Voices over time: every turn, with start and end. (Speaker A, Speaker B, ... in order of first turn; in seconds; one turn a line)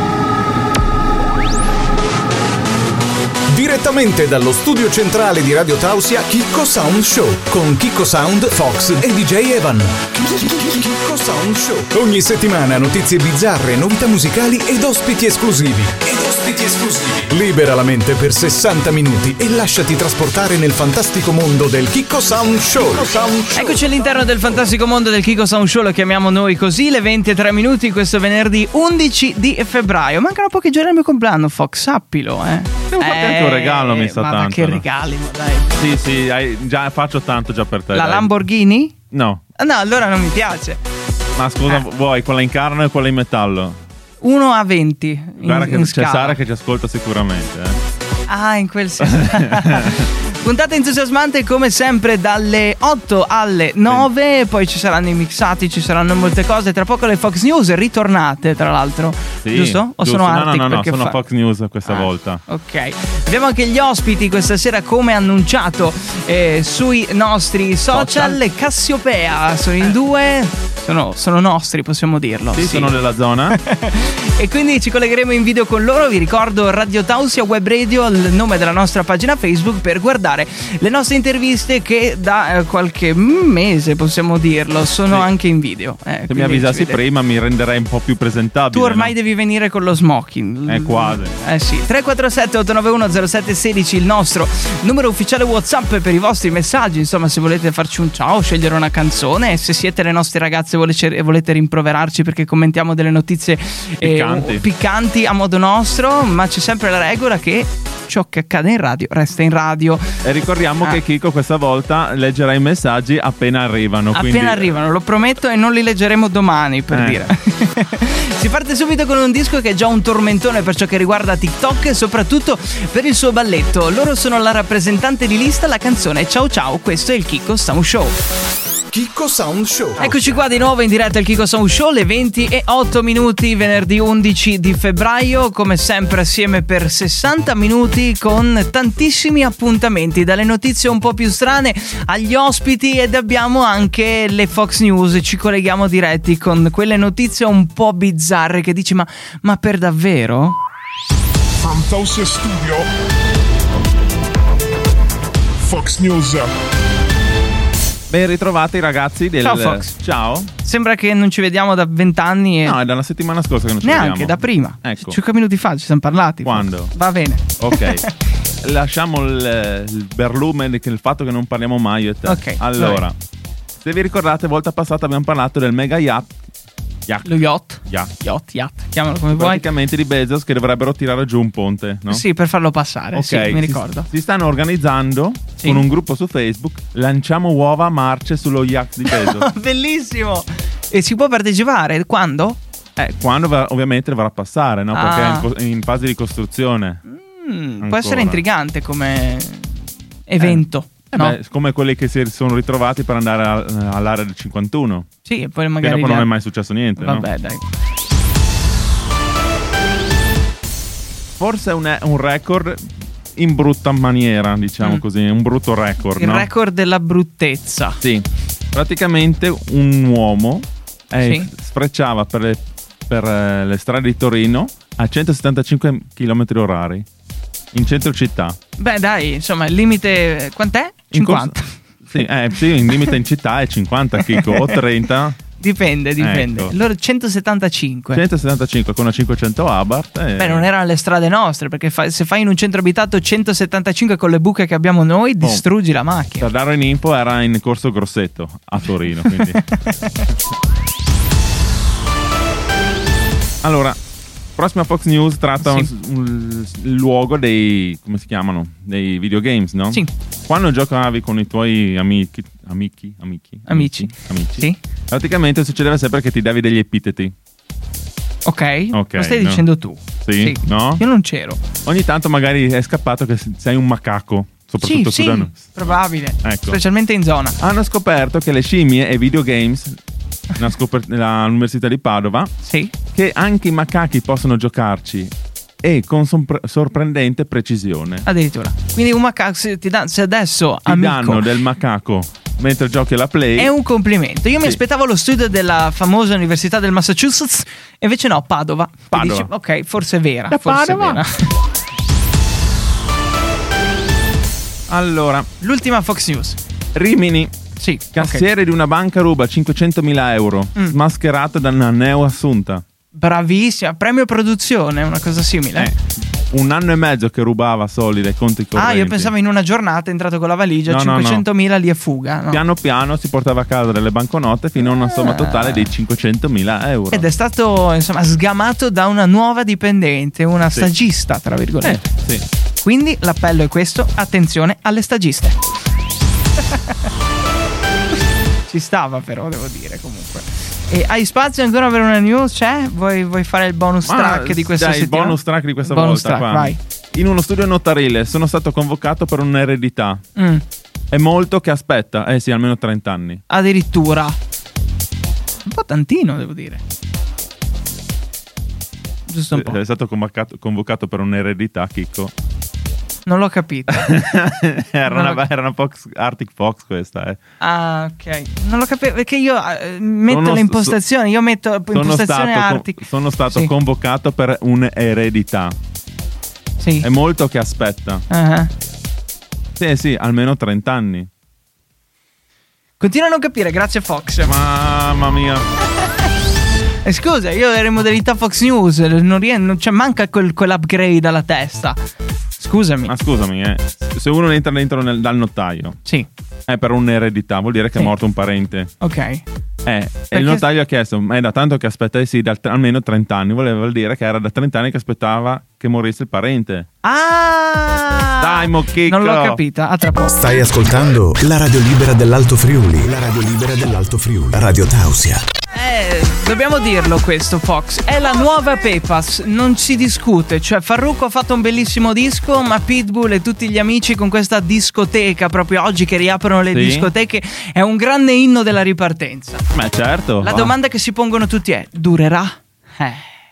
Speaker A: 3.5-23.9
Speaker B: 23.5-35.7
Speaker C: 32.9-34.8
Speaker C: 35.8-38.3
Speaker B: 37.9-39.0
Speaker C: 39.1-39.4
Speaker B: 39.6-40.8
Speaker C: 41.4-43.8
Speaker B: 44.2-46.4
Speaker C: 45.4-47.8
Speaker B: 48.3-61.2
Speaker C: 49.0-50.1
Speaker C: 59.4-62.4
Speaker B: 61.9-73.0
Speaker C: 67.9-68.4
Speaker C: 72.5-73.6
Speaker B: 73.5-87.0
Speaker C: 86.3-89.1
Speaker B: 88.7-110.2
Speaker C: 90.7-91.4
Speaker C: 104.0-104.6
Speaker C: 110.2-114.7
Speaker B: 114.1-128.2
Speaker C: 116.9-117.3
Speaker A: 128.9-130.1
Speaker B: 130.0-150.6
Speaker D: 151.6-152.9
Speaker D: 155.6-156.5
Speaker C: 158.1-160.5
Speaker B: 159.4-160.0
Speaker B: 160.6-162.8
Speaker C: 162.6-165.2
Speaker B: 163.8-168.1
Speaker C: 166.4-166.9
Speaker C: 167.6-168.1
Speaker C: 168.6-173.1
Speaker B: 172.2-173.0
Speaker C: 173.8-176.4
Speaker C: 177.1-178.1
Speaker B: 177.2-179.6
Speaker C: 179.4-182.2
Speaker B: 182.1-184.1
Speaker C: 183.1-189.4
Speaker B: 189.1-192.6
Speaker C: 193.0-197.0
Speaker B: 194.9-195.5
Speaker B: 197.1-201.4
Speaker C: 197.8-198.4
Speaker C: 200.4-205.1
Speaker B: 205.2-206.3
Speaker C: 205.8-207.3
Speaker B: 207.0-207.6
Speaker C: 211.4-216.5
Speaker B: 216.1-218.0
Speaker C: 218.0-227.1
Speaker B: 221.2-221.5
Speaker C: 227.7-228.6
Speaker B: 228.8-231.8
Speaker C: 231.1-235.4
Speaker B: 234.3-234.7
Speaker B: 235.6-238.2
Speaker C: 236.2-236.7
Speaker C: 238.1-240.7
Speaker B: 240.4-246.5
Speaker C: 246.4-250.3
Speaker B: 249.6-249.9
Speaker C: 253.6-254.0
Speaker C: 254.6-267.4
Speaker B: 255.6-255.9
Speaker B: 263.7-264.8
Speaker B: 268.4-271.6
Speaker C: 268.9-269.6
Speaker C: 270.2-271.0
Speaker C: 271.9-276.8
Speaker B: 274.8-277.6
Speaker C: 277.6-280.0
Speaker C: 280.6-282.5
Speaker B: 282.6-282.9
Speaker C: 283.1-288.2
Speaker B: 288.2-291.4
Speaker C: 290.9-293.7
Speaker B: 293.6-301.5
Speaker C: 299.1-299.5
Speaker C: 300.5-301.2
Speaker C: 304.9-305.5
Speaker B: 305.6-306.6
Speaker C: 306.9-307.6
Speaker B: 307.8-308.4
Speaker C: 308.1-312.8
Speaker B: 313.1-315.9
Speaker C: 315.8-319.3
Speaker B: 318.8-322.6
Speaker C: 320.9-321.4
Speaker C: 322.5-327.3
Speaker B: 324.8-325.9
Speaker B: 327.1-332.0
Speaker C: 331.8-332.5
Speaker B: 332.8-335.6
Speaker B: 338.7-346.8
Speaker C: 344.1-350.2
Speaker B: 350.4-350.6
Speaker C: 351.1-353.4
Speaker B: 353.5-354.4
Speaker B: 355.7-356.8
Speaker B: 359.3-359.8
Speaker C: 359.5-362.3
Speaker B: 363.2-364.1
Speaker C: 363.9-367.4
Speaker B: 365.1-365.4
Speaker B: 367.6-373.7
Speaker C: 370.3-371.0
Speaker C: 371.9-375.8
Speaker B: 376.8-377.1
Speaker C: 377.0-378.2
Speaker B: 378.3-378.7
Speaker C: 379.8-381.3
Speaker B: 383.0-384.5
Speaker C: 384.5-385.7
Speaker B: 387.0-392.0
Speaker B: 392.6-393.1
Speaker C: 393.1-396.0
Speaker C: 396.7-398.9
Speaker B: 399.0-399.4
Speaker C: 399.9-406.9
Speaker B: 400.3-400.6
Speaker B: 407.0-410.4
Speaker C: 408.4-409.6
Speaker A: 410.2-415.4
Speaker B: 415.7-429.7
Speaker C: 426.7-427.1
Speaker C: 429.7-430.7
Speaker B: 430.4-433.3